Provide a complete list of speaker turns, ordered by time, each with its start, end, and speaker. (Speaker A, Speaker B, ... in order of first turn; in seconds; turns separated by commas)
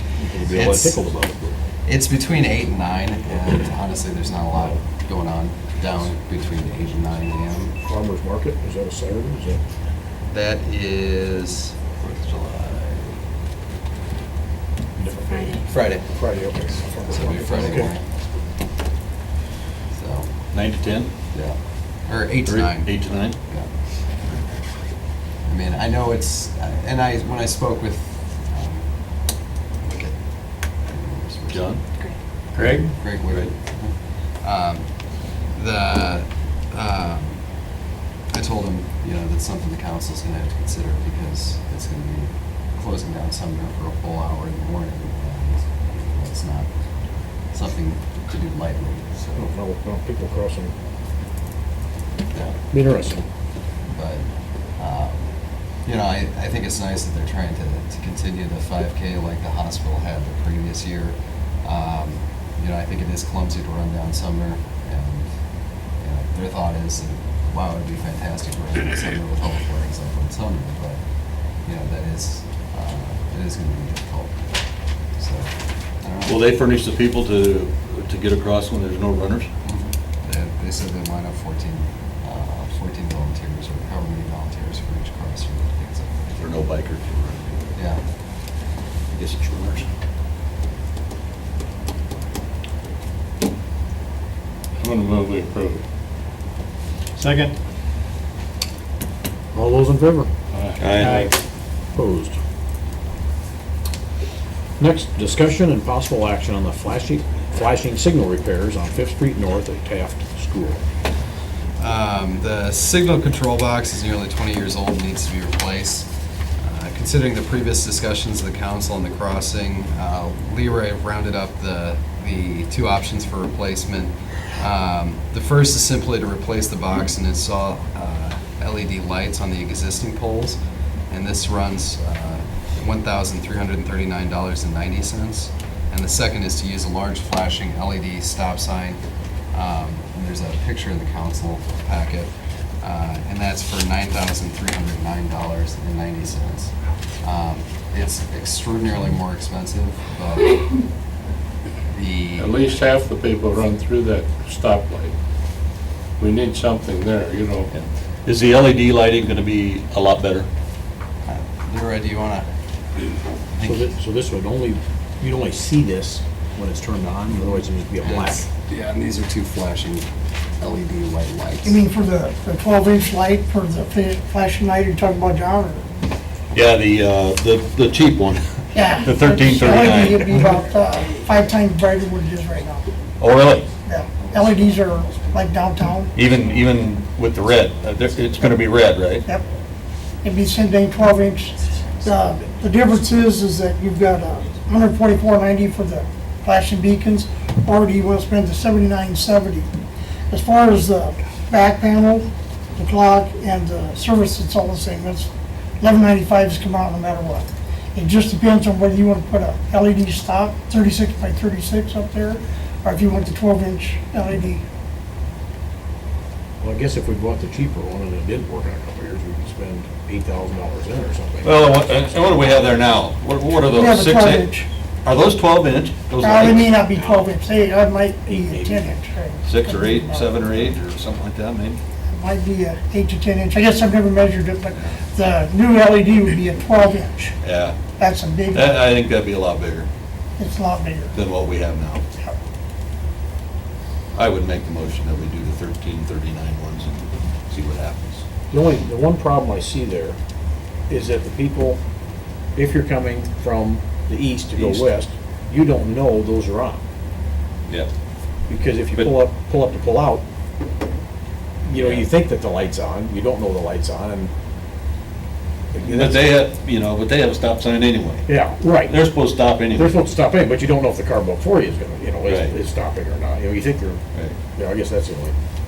Speaker A: 0.2-1.6, Speaker B: 0.5-1.0, Speaker B: 1.8-7.8, Speaker A: 7.8-9.6, Speaker B: 10.3-13.1, Speaker A: 15.0-17.9, Speaker B: 15.7-16.0, Speaker B: 17.1-18.1, Speaker B: 19.9-20.5, Speaker C: 20.5-21.1, Speaker B: 21.3-23.7, Speaker C: 22.5-23.4, Speaker B: 25.4-31.8, Speaker C: 31.5-31.8, Speaker C: 32.5-33.5, Speaker B: 32.7-37.6, Speaker B: 38.3-46.7, Speaker B: 47.5-49.5, Speaker A: 49.4-50.7, Speaker B: 52.3-52.6, Speaker A: 52.7-53.3, Speaker B: 53.9-71.0, Speaker B: 71.6-74.5, Speaker B: 75.1-76.4, Speaker C: 76.3-79.5, Speaker B: 79.6-86.5, Speaker C: 86.4-87.7, Speaker B: 87.8-88.0, Speaker C: 89.1-89.9, Speaker D: 94.8-95.8, Speaker D: 97.2-97.5, Speaker A: 99.5-100.3, Speaker D: 100.5-101.3, Speaker C: 100.8-101.3, Speaker A: 102.0-102.4, Speaker A: 104.8-110.8, Speaker B: 111.8-130.6, Speaker B: 131.1-139.0, Speaker B: 139.5-150.8, Speaker B: 151.9-152.8, Speaker D: 152.4-155.2, Speaker D: 156.2-157.7, Speaker C: 157.7-160.5, Speaker B: 161.3-162.5, Speaker B: 163.5-163.9, Speaker A: 163.6-168.5, Speaker B: 168.0-171.8, Speaker E: 171.6-175.9, Speaker C: 176.5-180.4, Speaker E: 178.7-182.9, Speaker C: 183.2-183.7, Speaker E: 183.8-186.1, Speaker C: 186.2-189.3, Speaker E: 190.2-199.7, Speaker B: 191.6-192.4, Speaker E: 200.3-214.6, Speaker A: 216.6-221.8, Speaker C: 221.4-224.5, Speaker E: 223.7-224.7, Speaker C: 225.0-226.7, Speaker E: 226.2-230.6, Speaker A: 226.4-227.4, Speaker A: 228.3-229.0, Speaker C: 229.5-231.8, Speaker E: 232.1-237.4, Speaker C: 237.4-237.8, Speaker E: 238.0-238.8, Speaker C: 238.5-239.9, Speaker E: 240.4-241.2, Speaker C: 241.1-242.0, Speaker C: 244.1-247.0, Speaker C: 247.5-248.2, Speaker A: 248.5-250.2, Speaker A: 250.9-251.8, Speaker A: 252.6-256.8, Speaker C: 254.5-254.9, Speaker A: 258.5-260.2, Speaker A: 261.6-264.3, Speaker C: 261.7-262.1, Speaker A: 265.7-266.3, Speaker C: 265.8-268.3, Speaker A: 268.3-269.0, Speaker C: 268.9-270.0, Speaker A: 269.7-274.0, Speaker C: 272.3-272.5, Speaker A: 274.6-275.3